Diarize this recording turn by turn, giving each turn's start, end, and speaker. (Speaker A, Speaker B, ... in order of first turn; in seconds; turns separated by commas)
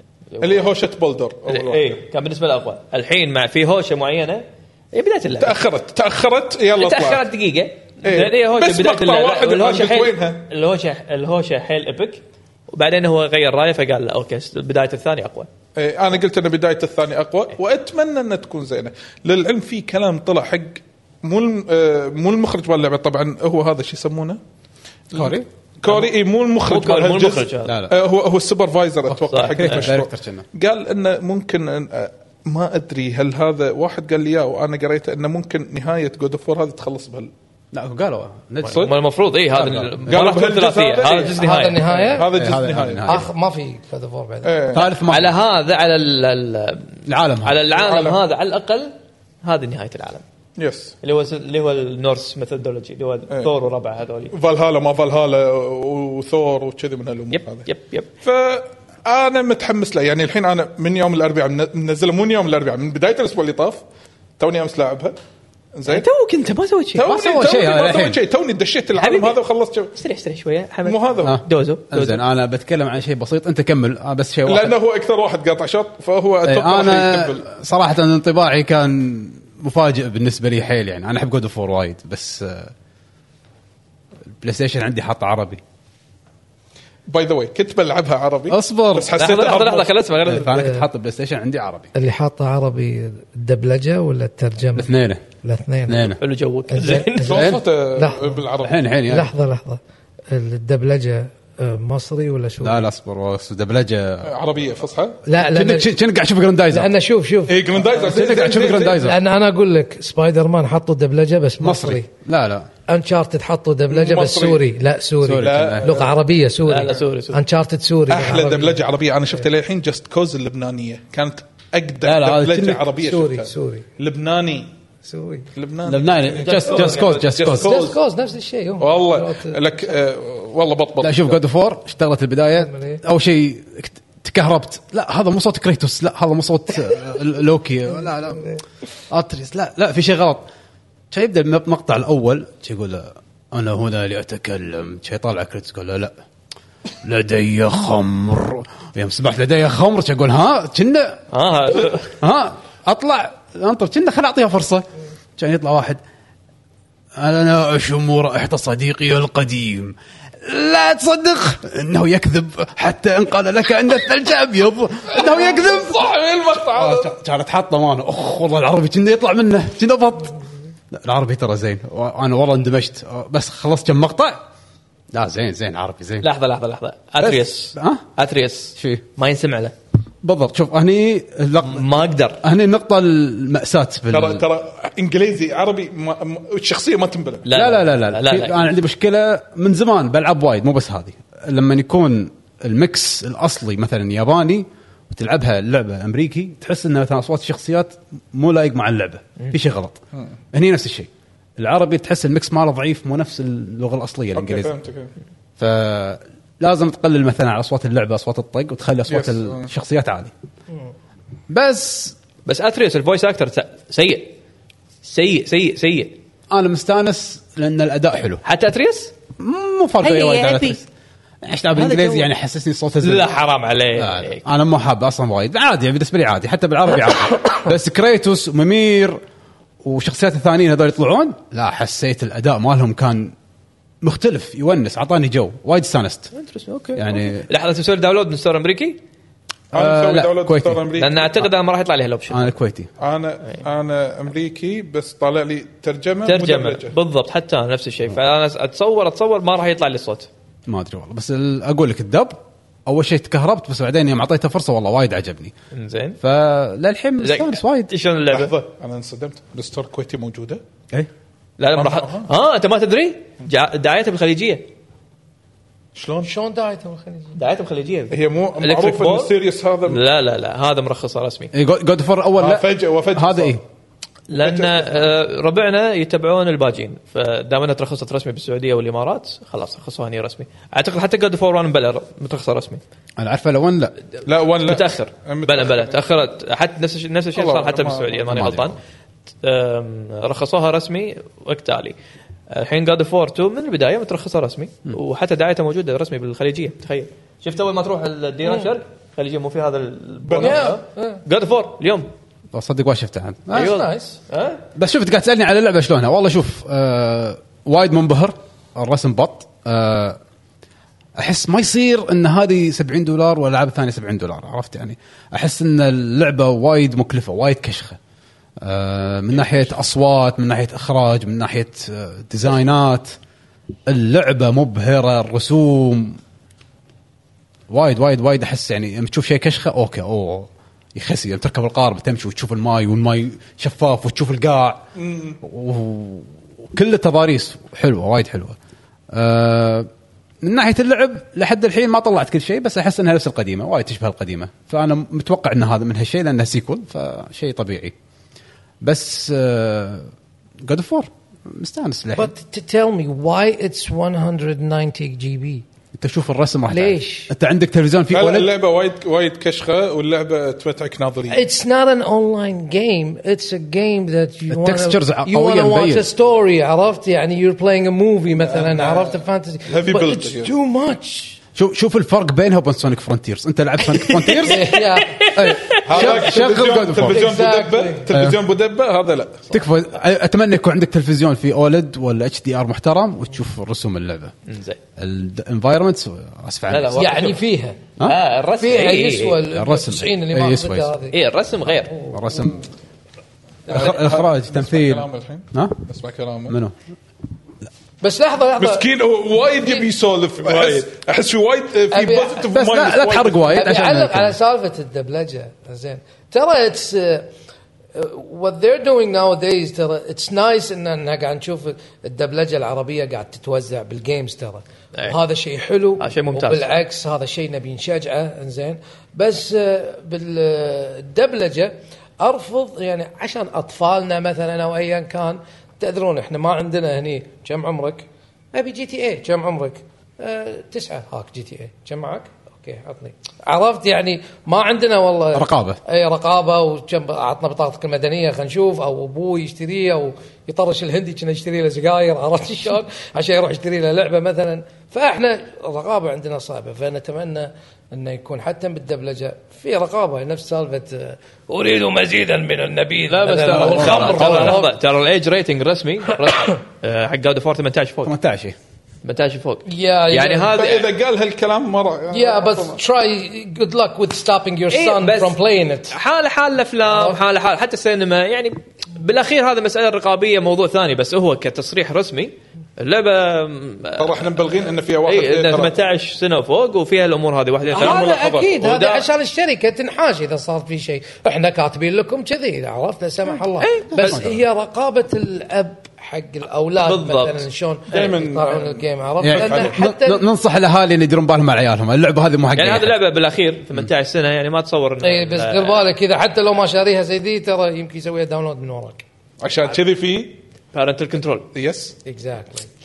Speaker A: 0.3-0.7, Speaker B: 0.4-2.0, Speaker A: 1.5-5.6, Speaker B: 5.4-7.2, Speaker A: 6.8-15.5, Speaker B: 8.0-10.5, Speaker B: 15.8-24.4, Speaker B: 25.1-37.3, Speaker C: 25.1-25.5, Speaker A: 25.9-26.1, Speaker A: 26.6-27.8, Speaker C: 27.7-27.9, Speaker C: 29.1-30.4, Speaker A: 29.3-29.9, Speaker C: 37.7-38.9, Speaker B: 38.6-38.9, Speaker A: 38.8-41.9, Speaker C: 39.5-40.1, Speaker B: 40.1-43.2, Speaker D: 41.3-42.3, Speaker C: 42.3-43.2, Speaker D: 43.0-44.6, Speaker B: 44.4-44.9, Speaker C: 44.7-45.4, Speaker A: 45.1-50.2, Speaker C: 47.1-47.6, Speaker B: 47.7-48.2, Speaker B: 50.6-50.9, Speaker A: 51.0-54.3, Speaker B: 54.3-57.7, Speaker A: 57.3-58.1, Speaker B: 58.2-63.8, Speaker B: 64.4-65.2, Speaker B: 65.8-66.1, Speaker A: 65.9-67.1, Speaker B: 67.0-69.9, Speaker C: 67.1-68.2, Speaker A: 69.0-69.4, Speaker A: 69.9-72.2, Speaker B: 70.8-71.4, Speaker C: 71.2-74.8, Speaker B: 74.5-77.4, Speaker C: 76.5-82.7, Speaker C: 84.4-85.6, Speaker B: 87.1-89.9, Speaker C: 88.5-89.1, Speaker A: 89.2-90.6, Speaker C: 90.2-91.9, Speaker D: 90.5-90.8, Speaker D: 92.0-96.2, Speaker C: 94.8-95.2, Speaker C: 95.9-96.2, Speaker A: 96.2-97.5, Speaker D: 96.7-98.4, Speaker B: 97.2-98.9, Speaker C: 97.3-97.6, Speaker C: 98.6-99.3, Speaker D: 99.1-102.9, Speaker C: 102.6-104.3, Speaker B: 104.2-105.2, Speaker D: 105.2-105.9, Speaker C: 105.5-106.9, Speaker D: 106.7-107.6, Speaker B: 107.5-109.1, Speaker C: 107.8-109.2, Speaker D: 109.0-112.1, Speaker C: 111.6-112.7, Speaker D: 112.9-118.8, Speaker B: 113.9-114.6, Speaker C: 115.2-115.9, Speaker B: 115.3-116.1, Speaker A: 116.7-117.4, Speaker B: 118.1-124.7, Speaker C: 122.0-122.9, Speaker D: 123.0-123.9, Speaker D: 125.0-125.5, Speaker B: 125.5-128.0, Speaker C: 125.8-127.8, Speaker A: 126.4-127.3, Speaker D: 127.5-129.7, Speaker B: 128.8-131.4, Speaker C: 131.0-138.6, Speaker D: 132.6-133.0, Speaker C: 139.1-140.5, Speaker C: 141.1-146.1, Speaker C: 147.0-151.2, Speaker A: 151.3-152.1, Speaker C: 152.2-154.9, Speaker C: 155.4-156.0, Speaker C: 157.2-166.0, Speaker B: 165.2-167.1, Speaker C: 166.7-170.3, Speaker C: 170.9-174.4, Speaker C: 175.1-176.3, Speaker A: 176.2-179.7, Speaker C: 177.2-178.0, Speaker C: 178.8-179.0, Speaker C: 180.2-184.4, Speaker A: 181.6-182.4, Speaker B: 184.1-187.5, Speaker A: 187.5-188.7, Speaker C: 187.5-200.0, Speaker C: 200.5-204.7, Speaker B: 204.3-205.1, Speaker C: 205.6-210.3, Speaker B: 209.1-209.7, Speaker C: 211.5-212.2, Speaker A: 212.5-214.3, Speaker A: 215.0-216.2, Speaker C: 216.5-218.4, Speaker A: 218.4-219.1, Speaker C: 219.4-220.9, Speaker A: 220.0-220.8, Speaker C: 221.4-223.3, Speaker A: 221.8-222.3, Speaker A: 223.0-224.4, Speaker C: 223.9-229.2, Speaker C: 229.8-233.3, Speaker C: 234.0-236.3, Speaker A: 236.3-239.0, Speaker C: 236.9-237.5, Speaker C: 239.7-240.9, Speaker B: 239.7-241.2, Speaker A: 241.0-242.5, Speaker C: 242.3-242.9, Speaker B: 243.0-247.0, Speaker A: 246.3-250.3, Speaker C: 250.7-255.5, Speaker A: 255.7-256.2, Speaker C: 256.2-257.9, Speaker A: 257.2-258.5, Speaker B: 258.3-260.6, Speaker A: 261.6-264.7, Speaker B: 261.7-262.3, Speaker B: 265.9-266.3, Speaker D: 266.2-267.4, Speaker A: 267.4-269.3, Speaker B: 268.1-270.0, Speaker A: 269.9-271.5, Speaker C: 271.5-273.6, Speaker B: 272.4-273.6, Speaker A: 274.3-282.8, Speaker B: 274.4-275.1, Speaker C: 283.2-283.9, Speaker B: 284.3-286.0, Speaker A: 284.6-288.8, Speaker B: 287.3-288.3, Speaker C: 288.3-288.8, Speaker A: 289.4-292.0, Speaker A: 292.5-302.1, Speaker B: 300.3-300.7, Speaker D: 300.4-301.2, Speaker C: 302.5-303.8, Speaker A: 303.5-304.6, Speaker D: 303.5-304.2, Speaker C: 304.8-310.2, Speaker C: 311.2-318.0, Speaker C: 318.6-323.2, Speaker B: 319.3-319.6, Speaker C: 323.9-326.2, Speaker C: 327.7-334.8, Speaker B: 335.0-335.4, Speaker C: 335.4-338.6, Speaker C: 339.1-339.9, Speaker C: 340.4-347.9, Speaker C: 348.8-350.1, Speaker C: 350.6-352.3, Speaker D: 352.2-355.6, Speaker C: 355.9-358.5, Speaker D: 356.7-357.3, Speaker B: 358.1-361.4, Speaker D: 361.3-371.4, Speaker C: 364.5-366.1, Speaker B: 368.4-370.5, Speaker C: 371.6-374.8, Speaker D: 374.4-375.3, Speaker A: 375.1-375.8, Speaker C: 375.3-377.3, Speaker B: 375.9-379.5, Speaker D: 377.0-378.1, Speaker C: 378.1-378.4, Speaker C: 379.5-384.3, Speaker A: 384.5-384.8, Speaker C: 385.0-387.1, Speaker A: 386.7-387.4, Speaker D: 387.0-387.8, Speaker A: 388.0-389.4, Speaker D: 388.6-391.2, Speaker C: 389.5-390.9, Speaker A: 391.1-391.9, Speaker D: 391.9-392.5, Speaker C: 392.1-392.6, Speaker B: 393.7-396.6, Speaker C: 393.7-395.8, Speaker C: 396.5-396.8, Speaker D: 398.0-398.9, Speaker B: 398.6-403.6, Speaker A: 400.4-400.8, Speaker D: 401.9-402.4, Speaker C: 402.5-404.4, Speaker D: 403.5-407.3, Speaker D: 407.9-454.7, Speaker A: 416.0-416.7, Speaker C: 435.3-435.8, Speaker A: 453.1-458.1, Speaker C: 453.6-454.6, Speaker B: 453.7-454.5, Speaker C: 458.1-458.6, Speaker A: 459.0-460.9, Speaker D: 459.7-460.6, Speaker B: 460.5-462.8, Speaker D: 462.1-465.9, Speaker A: 464.7-465.4, Speaker A: 465.9-474.5, Speaker D: 466.9-467.2, Speaker B: 474.0-475.8, Speaker A: 475.1-478.1, Speaker B: 477.7-478.6, Speaker D: 477.8-490.2, Speaker A: 478.6-479.1, Speaker A: 483.6-484.2, Speaker C: 483.9-484.4, Speaker A: 486.9-488.1, Speaker B: 487.9-489.8, Speaker C: 489.2-492.9, Speaker A: 492.6-495.9, Speaker D: 495.0-499.0, Speaker B: 499.4-500.4, Speaker A: 500.7-501.5, Speaker B: 501.6-502.0, Speaker D: 502.1-502.7